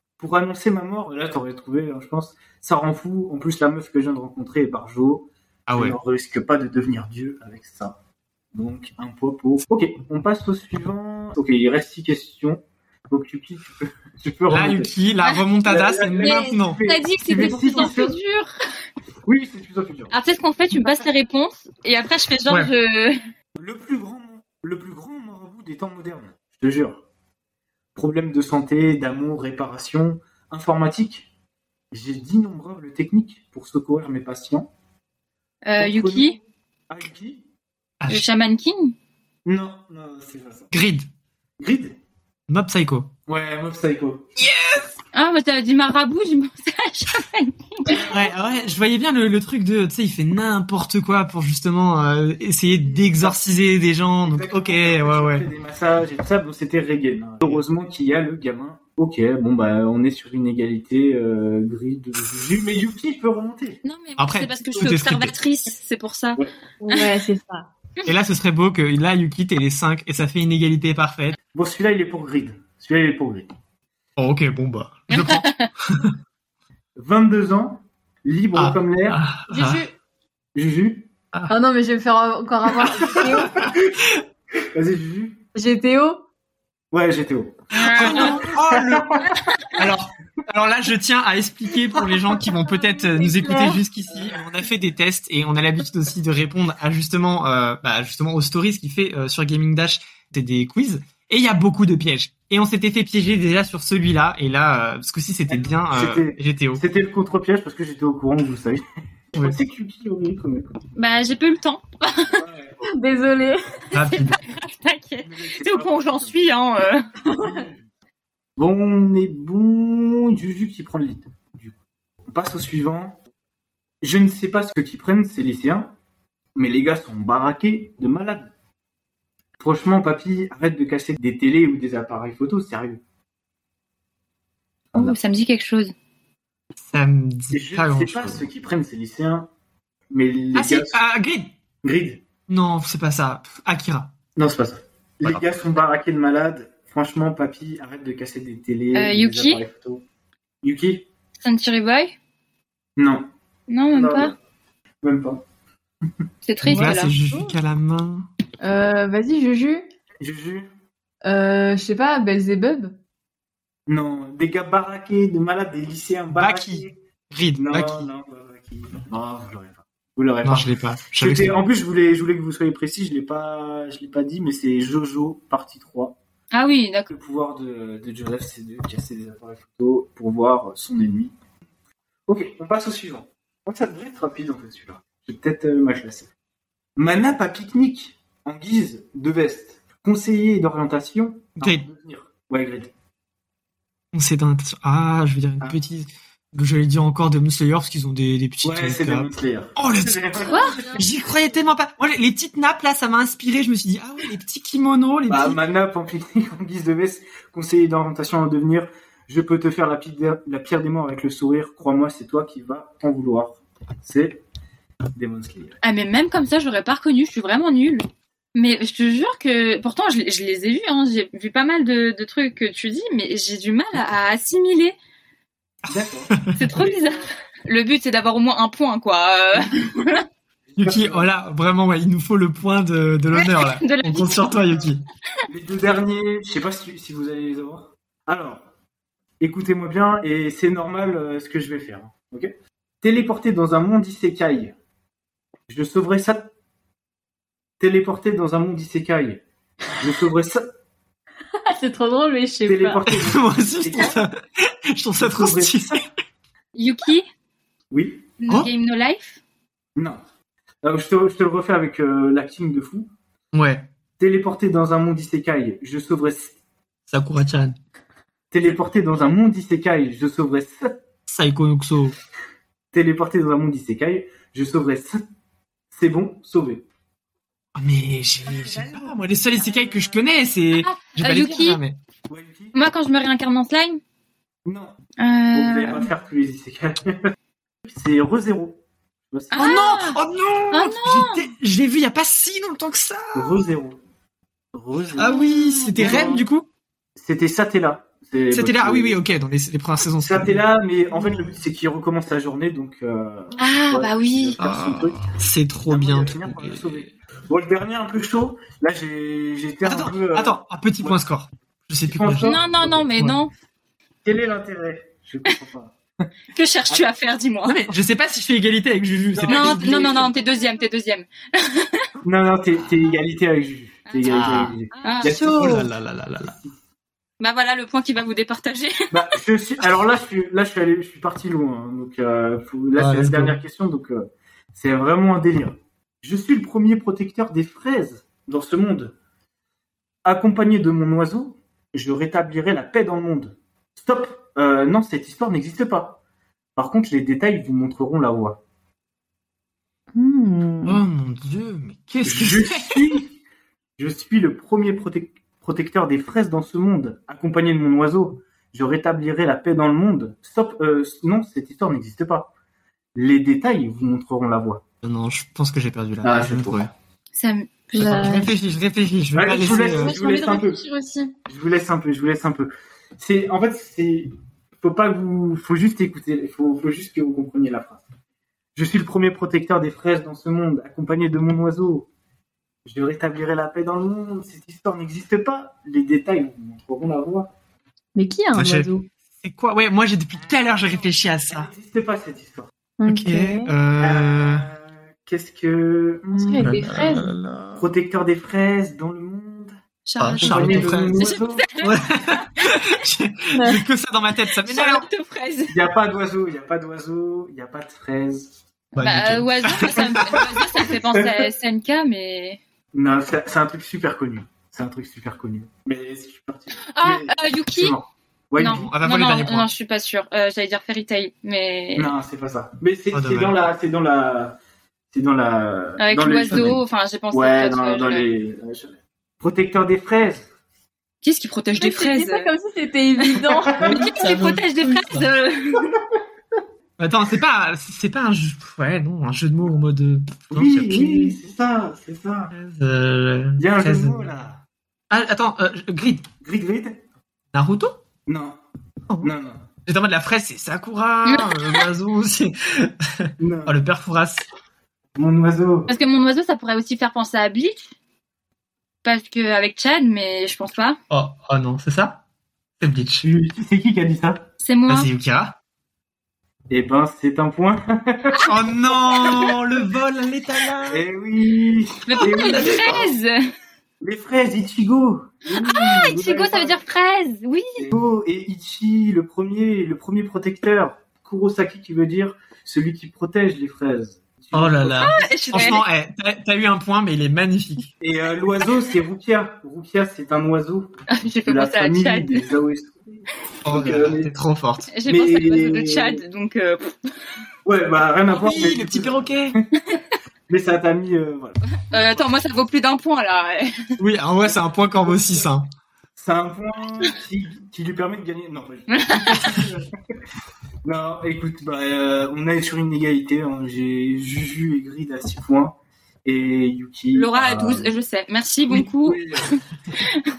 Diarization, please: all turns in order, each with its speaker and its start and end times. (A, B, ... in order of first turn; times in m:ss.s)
0:00.2-0:08.0 A
0:05.7-0:06.0 B
0:08.5-0:14.9 A
0:14.5-0:16.8 B
0:15.7-0:18.2 A
0:16.1-0:18.5 C
0:17.2-0:17.9 D
0:19.3-0:20.1 A
0:20.1-0:23.2 C
0:23.6-0:27.0 A
0:28.0-0:31.3 A
0:31.9-0:34.7 A
0:35.7-0:36.4 C
0:35.8-0:36.3 A
0:36.9-0:37.4 A
0:38.0-0:38.3 B
0:38.1-0:38.9 C
0:39.5-0:40.7 A
0:40.7-0:41.1 B
0:41.6-0:42.0 A
0:42.5-0:43.1 B
0:43.3-0:44.4 A
0:44.4-0:44.9 B
0:45.1-0:48.1 C
0:47.9-0:48.2 A
0:48.1-0:55.5 B
0:53.0-0:53.4 A
0:54.2-1:03.8 A
1:03.8-1:07.2 C
1:04.2-1:05.3 B
1:06.8-1:07.7 D
1:08.0-1:11.4 B
1:11.5-1:13.5 A
1:14.2-1:16.2 B
1:15.1-1:15.7 C
1:17.0-1:19.2 A
1:18.5-1:19.8 B
1:19.5-1:19.9 D
1:20.6-1:21.1 A
1:21.5-1:23.6 D
1:22.8-1:23.8 B
1:22.9-1:23.8 A
1:24.7-1:25.4 A
1:25.6-1:26.2 D
1:26.9-1:29.5 A
1:27.7-1:28.5 C
1:27.9-1:46.8 B
1:32.8-1:33.8 D
1:45.5-1:50.7 A
1:51.0-1:52.4 C
1:52.3-1:52.8 A
1:52.8-1:53.6 D
1:53.9-1:54.4 B
1:53.9-1:57.0 C
1:55.2-1:56.4 A
1:57.2-1:57.9 A
1:57.3-1:57.6 D
1:58.6-2:01.8 A
2:02.3-2:03.2 A
2:04.0-2:05.9 A
2:06.6-2:08.5 A
2:09.6-2:13.0 A
2:15.0-2:15.9 C
2:16.8-2:18.5 B
2:17.5-2:19.5 A
2:20.1-2:21.0 A
2:20.5-2:21.6 B
2:21.8-2:22.2 A
2:22.5-2:24.1 B
2:24.4-2:30.0 A
2:28.9-2:29.6 C
2:30.6-2:31.1 A
2:31.4-2:32.2 C
2:33.0-2:33.3 A
2:33.7-2:34.3 C
2:33.9-2:34.4 A
2:35.0-2:35.4 A
2:36.4-2:37.2 C
2:36.6-2:38.3 B
2:36.6-2:37.5 D
2:38.6-2:39.9 D
2:40.2-2:40.7 A
2:41.2-2:43.0 D
2:43.9-2:47.0 A
2:46.3-2:48.1 B
2:47.6-2:56.2 A
2:50.4-2:51.6 B
2:56.5-2:57.1 C
2:57.1-3:01.3 A
3:02.3-3:06.3 A
3:07.0-3:12.9 A
3:11.6-3:11.9 B
3:14.1-3:25.6 B
3:18.6-3:21.0 A
3:20.5-3:20.8 C
3:20.6-3:21.0 D
3:25.3-3:34.4 A
3:35.2-3:35.8 A
3:35.8-3:45.0 C
3:45.8-3:46.6 B
3:45.9-3:47.3 A
3:46.5-3:50.3 C
3:50.7-3:51.3 A
3:50.8-3:55.0 B
3:53.3-3:54.5 C
3:55.5-3:58.6 A
3:59.4-4:04.8 A
4:05.7-4:06.5 A
4:07.8-4:09.4 A
4:10.0-4:10.7 A
4:11.6-4:13.1 D
4:12.6-4:14.2 A
4:13.1-4:16.1 B
4:15.2-4:16.0 A
4:16.8-4:17.3 C
4:17.9-4:18.3 A
4:18.4-4:19.4 C
4:20.0-4:20.2 A
4:20.8-4:23.1 A
4:23.5-4:23.9 B
4:24.2-4:26.6 A
4:27.1-4:27.8 B
4:28.5-4:30.9 A
4:31.3-4:32.2 B
4:32.9-4:35.2 A
4:35.9-4:36.9 A
4:37.8-4:42.0 B
4:38.5-4:40.3 A
4:40.8-4:41.8 C
4:42.3-4:42.7 A
4:42.7-4:44.0 C
4:44.6-4:45.0 A
4:45.2-4:46.1 C
4:45.5-4:47.3 A
4:47.9-4:48.8 A
4:49.3-4:49.7 A
4:49.5-4:50.2 C
4:49.6-4:53.6 B
4:50.7-4:51.5 C
4:53.3-4:54.0 A
4:54.7-4:55.4 A
4:55.2-4:56.7 B
4:55.2-4:56.3 C
4:56.0-4:56.5 A
4:57.2-4:59.2 A
4:58.5-5:00.6 B
5:00.2-5:05.3 A
5:03.6-5:04.6 C
5:04.6-5:07.1 B
5:05.9-5:11.2 A
5:09.8-5:12.6 B
5:12.1-5:13.1 A
5:12.4-5:13.5 C
5:14.2-5:16.3 A
5:16.5-5:17.9 C
5:17.7-5:20.2 B
5:19.3-5:20.4 A
5:19.5-5:22.1 C
5:22.2-5:25.8 A
5:24.1-5:25.4 C
5:24.2-5:26.6 B
5:25.2-5:25.9 D
5:27.4-5:29.1 C
5:29.1-5:39.2 A
5:33.0-5:33.6 B
5:40.2-5:46.2 A
5:46.8-5:48.6 A
5:50.1-5:51.0 D
5:50.8-5:53.2 B
5:52.2-5:53.4 A
5:54.0-6:02.5 A
6:03.2-6:04.8 A
6:05.0-6:06.9 B
6:06.2-6:06.9 A
6:07.3-6:08.3 C
6:07.9-6:08.5 D
6:08.0-6:10.3 B
6:09.3-6:10.8 A
6:09.6-6:11.3 D
6:11.5-6:18.0 A
6:18.8-6:22.1 A
6:22.8-6:27.5 A
6:28.2-6:29.1 D
6:28.5-6:28.9 B
6:29.4-6:31.7 B
6:31.5-6:32.7 A
6:33.0-6:33.7 D
6:33.1-6:34.7 B
6:34.0-6:36.8 A
6:36.3-6:37.3 D
6:36.6-6:37.9 B
6:37.8-6:39.8 A
6:40.1-6:41.9 C
6:40.2-6:41.2 B
6:40.4-6:41.8 A
6:41.8-6:45.1 B
6:43.5-6:43.8 D
6:44.6-6:45.8 C
6:45.7-6:48.5 A
6:49.0-6:50.8 B
6:49.0-6:52.6 C
6:49.8-6:51.5 A
6:52.9-6:58.9 A
6:56.9-6:58.0 C
6:58.6-7:02.1 C
6:58.6-6:59.7 B
7:02.0-7:04.6 A
7:03.1-7:03.6 B
7:05.1-7:10.5 A
7:06.0-7:08.3 C
7:11.2-7:12.5 C
7:11.8-7:14.0 D
7:13.4-7:14.1 A
7:13.8-7:16.0 C
7:13.8-7:15.3 B
7:17.0-7:21.3 B
7:20.5-7:22.5 A
7:22.5-7:24.3 B
7:23.6-7:24.6 A
7:25.1-7:26.3 B
7:26.4-7:27.0 A
7:27.5-7:28.0 B
7:28.3-7:28.6 A
7:29.2-7:29.7 A
7:29.9-7:34.4 B
7:31.2-7:31.8 C
7:33.4-7:33.8 A
7:35.2-7:35.9 A
7:35.9-7:38.0 C
7:39.0-7:41.0 C
7:41.1-7:42.2 B
7:42.8-7:43.3 B
7:43.2-7:44.4 A
7:44.6-7:45.1 C
7:44.9-7:45.6 B
7:46.7-7:49.6 A
7:48.4-7:51.0 B
7:50.9-7:53.1 A
7:52.1-7:53.4 C
7:52.2-7:53.2 B
7:54.0-7:56.8 A
7:55.5-7:57.9 C
7:57.8-8:05.3 A
8:04.5-8:07.9 B
8:05.0-8:05.8 C
8:08.0-8:10.9 A
8:11.1-8:12.5 C
8:11.5-8:14.3 A
8:13.6-8:14.9 B
8:14.9-8:17.1 C
8:15.1-8:16.2 A
8:17.6-8:19.8 A
8:18.3-8:19.6 B
8:20.5-8:21.8 A
8:21.8-8:23.7 C
8:24.0-8:25.7 B
8:24.5-8:25.2 A
8:26.2-8:29.9 A
8:28.9-8:29.6 C
8:30.8-8:37.9 A
8:37.1-8:40.3 C
8:38.7-8:39.6 A